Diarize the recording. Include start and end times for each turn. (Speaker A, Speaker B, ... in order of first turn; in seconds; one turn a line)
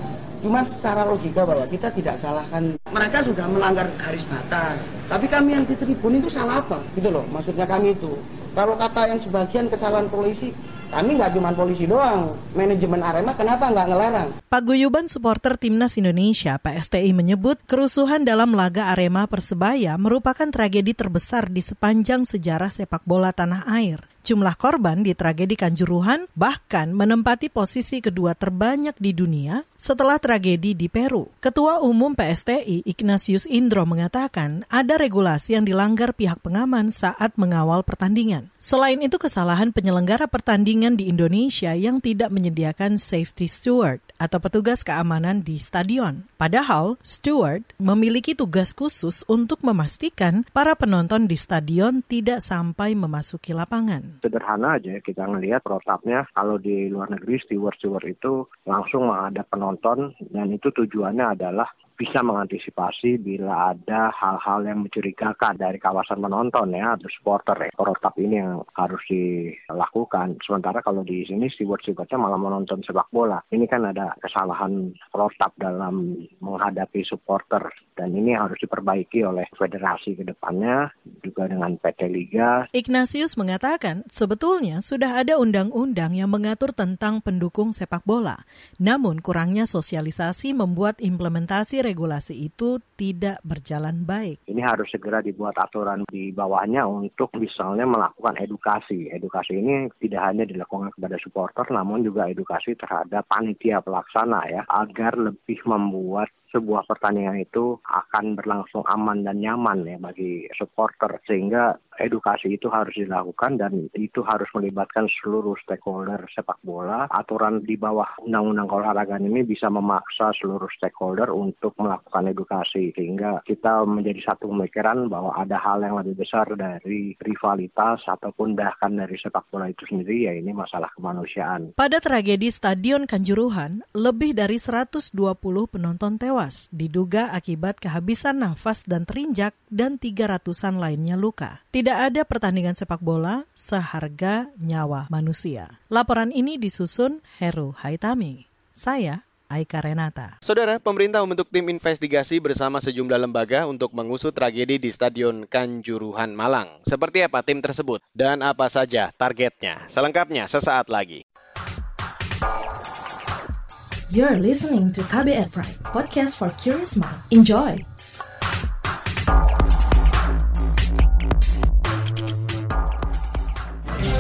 Speaker A: 0.4-14.3
Speaker B: 14.5-54.1
Speaker C: 54.2-82.5
Speaker B: 82.8-94.4
Speaker C: 94.5-131.7
Speaker B: 131.8-150.3
Speaker D: 150.4-161.2
Speaker E: 164.1-167.8